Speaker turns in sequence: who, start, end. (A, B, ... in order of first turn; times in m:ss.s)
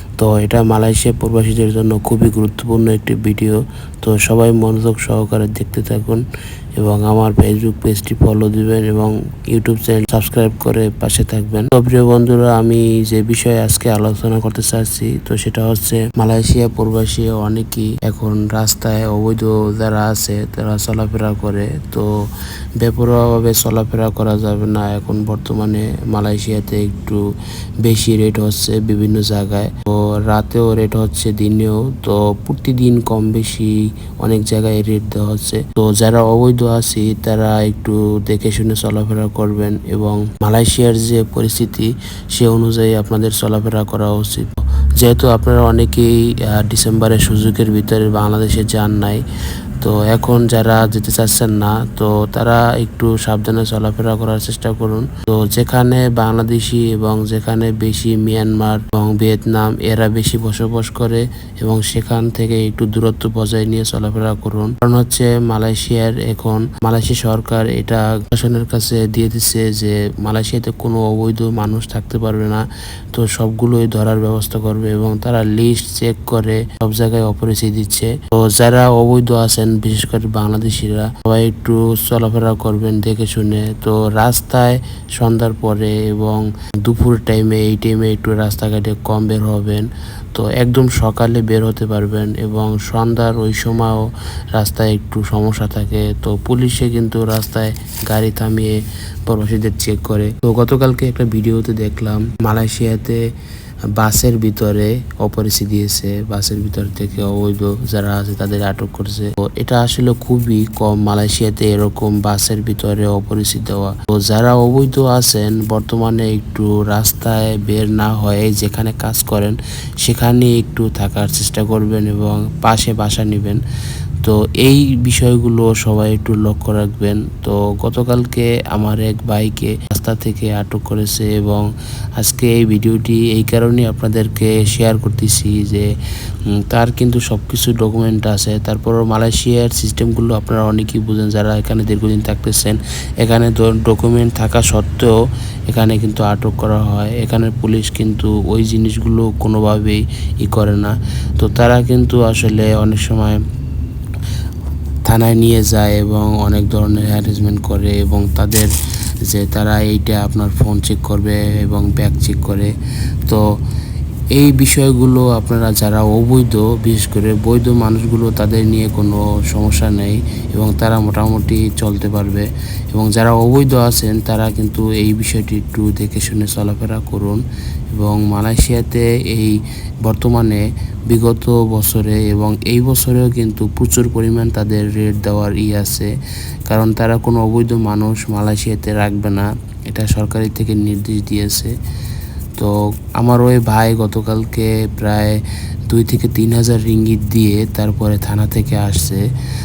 0:00.2-0:06.2 A
0:06.8-0:22.1 A
0:22.8-0:27.2 A
0:27.8-0:49.2 A
0:49.8-1:43.2 A
1:44.0-2:03.6 A
2:04.2-2:15.9 A
2:16.6-2:33.4 A
2:35.0-2:42.7 A
2:43.2-2:43.6 A
2:44.3-3:06.1 A
3:06.7-3:11.7 A
3:12.6-3:15.4 A
3:15.9-3:19.2 A